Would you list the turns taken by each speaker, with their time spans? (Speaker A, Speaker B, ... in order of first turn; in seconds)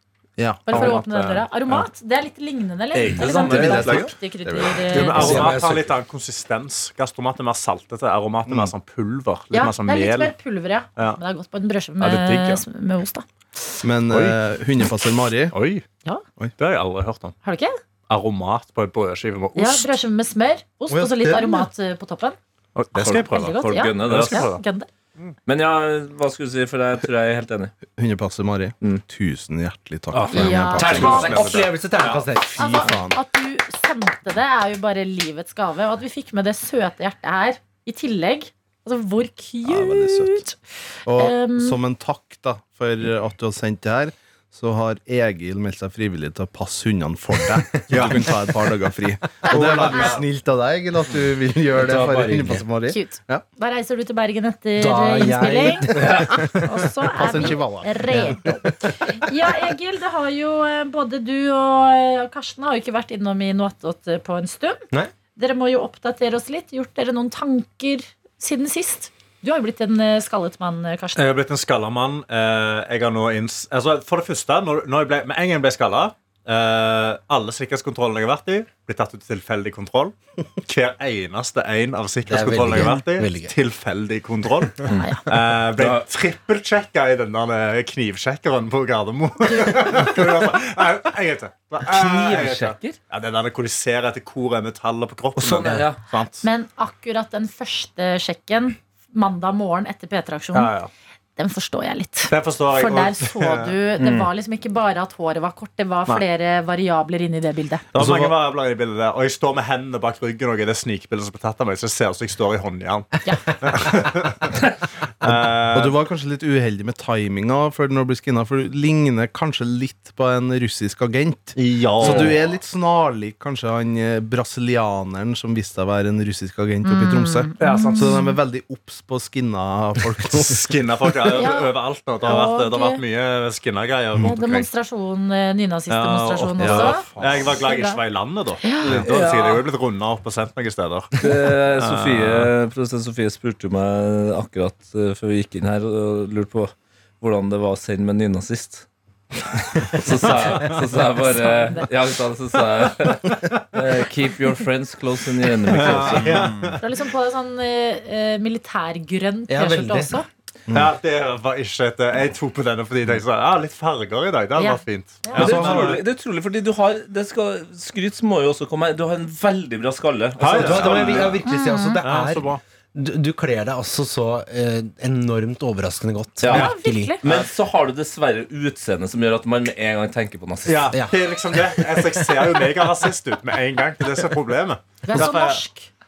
Speaker A: 0.4-1.0, 3.2-5.4, 8.5-8.7, 13.8-15.6, 27.9-31.5, 32.5-33.2, 39.6-40.4, 41.1-53.4, 57.2-58.6, 108.0-108.3, 115.3-131.4, 136.6-137.6
Speaker B: 0.7-5.5, 9.5-13.2, 17.4-17.8, 19.6-22.4, 23.2-24.9, 30.3-31.4, 32.6-40.6, 41.1-41.8, 49.5-50.2, 52.9-64.8, 65.4-71.2, 96.4-100.7, 101.4-107.8, 126.8-128.3, 131.4-131.7, 132.2-133.0, 134.2-138.0, 138.6-138.9, 151.2-151.9, 156.8-160.3, 164.6-165.6, 171.5-172.0, 176.5-177.2, 185.0-185.9
Speaker C: 0.7-1.8, 4.9-10.3, 12.0-12.6, 14.1-14.4, 15.5-15.8, 16.6-17.4, 18.1-19.9, 22.8-24.6, 30.8-32.2, 47.9-48.3, 49.5-50.2, 71.2-96.5, 100.5-100.9, 102.3-103.8, 107.9-116.0, 121.6-122.4, 127.6-128.2, 130.3-134.7, 135.9-142.5, 155.7-156.8, 160.7-166.0, 170.4-171.4, 172.0-172.6, 180.7-185.6
Speaker D: 3.0-4.1, 23.0-24.5, 25.5-27.7, 30.1-31.5, 56.0-56.4, 84.9-86.1, 91.9-93.0, 95.4-96.0, 104.0-104.3, 138.9-139.7, 141.2-148.9, 149.7-156.5, 165.3-171.4, 176.4-176.7, 177.2-180.9
Speaker E: 5.1-5.9, 20.9-21.7, 30.2-32.9, 51.7-52.6, 54.8-56.7, 58.1-58.4, 82.3-83.5, 159.5-160.2, 165.4-165.9, 170.5-177.2, 180.9-182.3